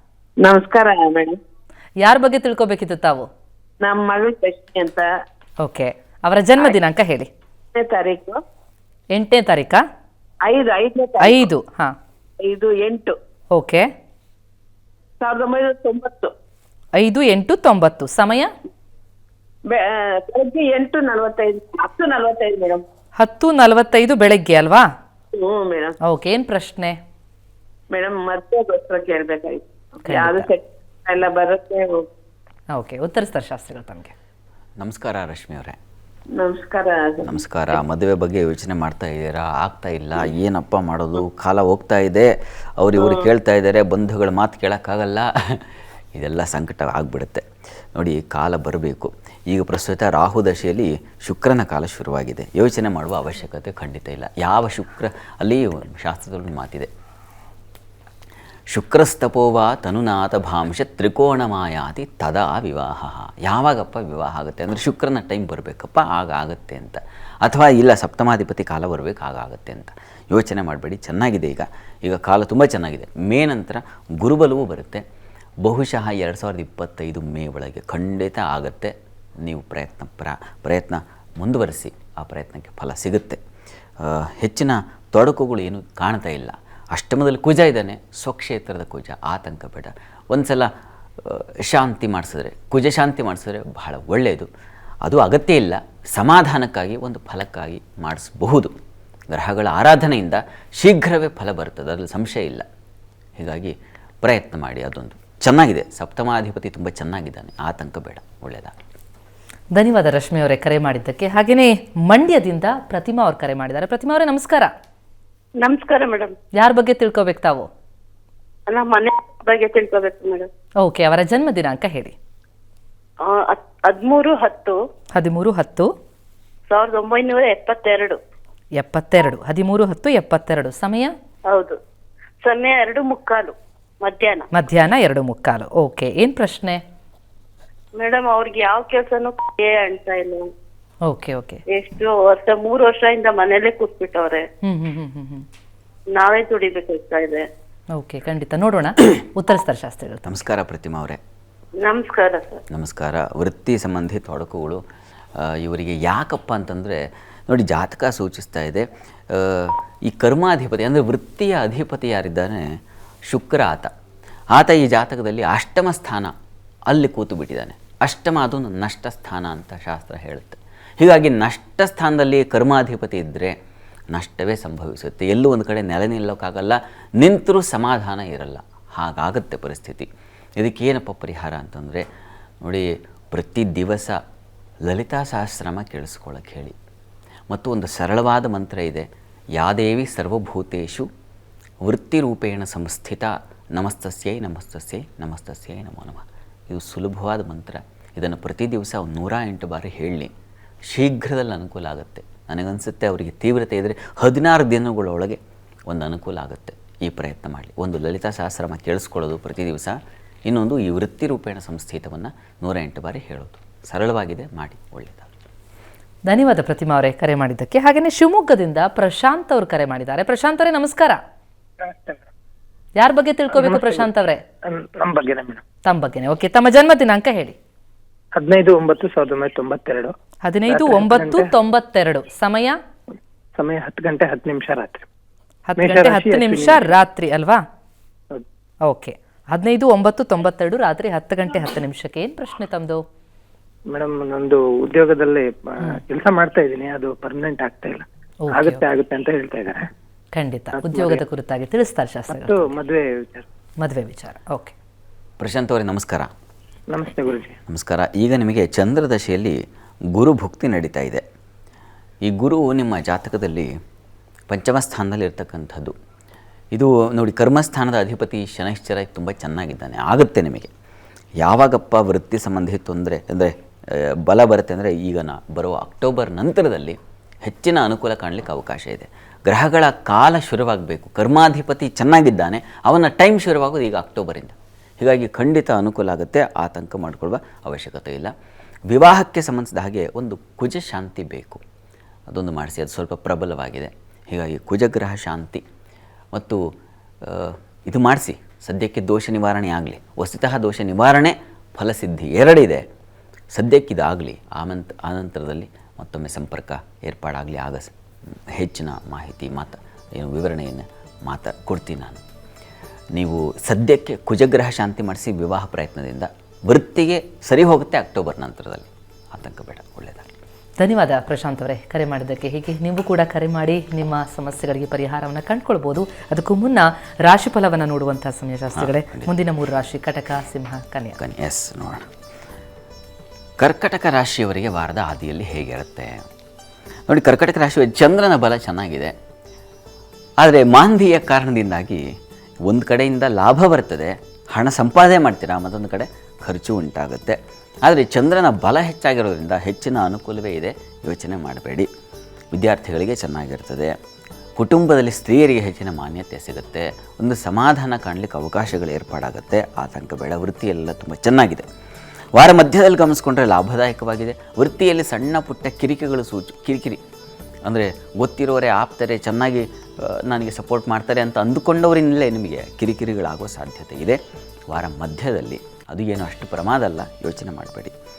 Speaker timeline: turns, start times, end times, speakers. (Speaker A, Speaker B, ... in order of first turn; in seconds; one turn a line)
Speaker A: 0.4-1.4
Speaker B: 2.0-3.2
Speaker A: 3.8-5.0
Speaker B: 5.6-7.3
Speaker A: 7.7-8.4
Speaker B: 9.1-9.8
Speaker A: 10.4-11.5
Speaker B: 11.2-11.9
Speaker A: 12.4-13.2
Speaker B: 13.5-13.9
Speaker A: 15.2-16.3
Speaker B: 16.9-18.5
Speaker A: 19.7-22.8
Speaker B: 23.2-24.9
Speaker A: 25.3-25.9
Speaker B: 26.0-26.9
Speaker A: 27.9-32.1
Speaker B: 30.0-30.5
Speaker B: 32.7-34.1
Speaker C: 34.8-35.8
Speaker A: 36.3-37.4
Speaker C: 37.2-47.4
Speaker A: 43.0-43.2
Speaker C: 48.0-56.9
Speaker C: 58.7-75.0
Speaker C: 75.6-78.9
Speaker C: 79.4-83.4
Speaker C: 84.0-90.7
Speaker C: 91.2-94.5
Speaker C: 95.0-98.7
Speaker C: 99.3-102.6
Speaker C: 103.4-108.7
Speaker B: 109.7-114.7
Speaker D: 115.6-116.3
Speaker B: 116.6-117.7
Speaker D: 118.7-120.5
Speaker B: 120.8-122.1
Speaker D: 123.2-124.8
Speaker B: 125.2-125.9
Speaker D: 126.7-128.2
Speaker B: 128.8-131.1
Speaker D: 131.5-131.8
Speaker D: 132.4-134.5
Speaker B: 134.5-136.8
Speaker D: 138.0-140.5
Speaker B: 141.1-141.6
Speaker D: 141.7-144.4
Speaker B: 144.6-145.4
Speaker D: 146.1-147.4
Speaker B: 147.9-150.2
Speaker C: 150.2-151.2
Speaker D: 151.8-152.6
Speaker C: 152.7-154.8
Speaker C: 155.4-162.6
Speaker C: 163.3-163.9
Speaker C: 164.5-166.3
Speaker C: 166.9-173.5
Speaker C: 174.1-180.1
Speaker C: 180.6-182.0
Speaker C: 182.6-184.2
Speaker C: 184.8-186.7
Speaker C: 187.5-191.1
Speaker C: 191.8-200.3
Speaker C: 200.9-215.3
Speaker B: 216.3-221.2
Speaker E: 221.8-222.2
Speaker B: 223.0-224.4
Speaker E: 223.6-224.1
Speaker E: 224.7-225.6
Speaker B: 225.8-227.5
Speaker E: 228.4-230.1
Speaker B: 230.4-232.8
Speaker E: 230.7-231.5
Speaker E: 233.6-235.1
Speaker B: 235.7-237.6
Speaker E: 235.8-236.9
Speaker B: 238.8-243.0
Speaker E: 243.9-249.8
Speaker B: 248.4-248.8
Speaker B: 250.3-252.7
Speaker E: 250.7-251.2
Speaker E: 252.3-253.4
Speaker B: 253.8-254.7
Speaker C: 255.4-256.3
Speaker E: 256.9-257.6
Speaker C: 257.7-259.6
Speaker C: 260.1-261.2
Speaker C: 262.2-263.7
Speaker C: 264.5-265.9
Speaker C: 266.7-270.7
Speaker C: 271.4-288.3
Speaker C: 288.9-291.6
Speaker C: 292.3-295.6
Speaker C: 296.3-296.6
Speaker C: 297.2-302.8
Speaker C: 303.5-307.9
Speaker C: 308.5-312.2
Speaker C: 313.1-320.3
Speaker B: 320.8-331.2
Speaker C: 328.7-329.3
Speaker C: 331.2-332.1
Speaker C: 333.6-336.2
Speaker C: 337.1-339.1
Speaker C: 340.4-342.0
Speaker C: 342.6-351.9
Speaker C: 352.5-353.9
Speaker C: 354.6-361.6
Speaker C: 362.3-367.0
Speaker C: 367.6-374.2
Speaker C: 374.7-377.9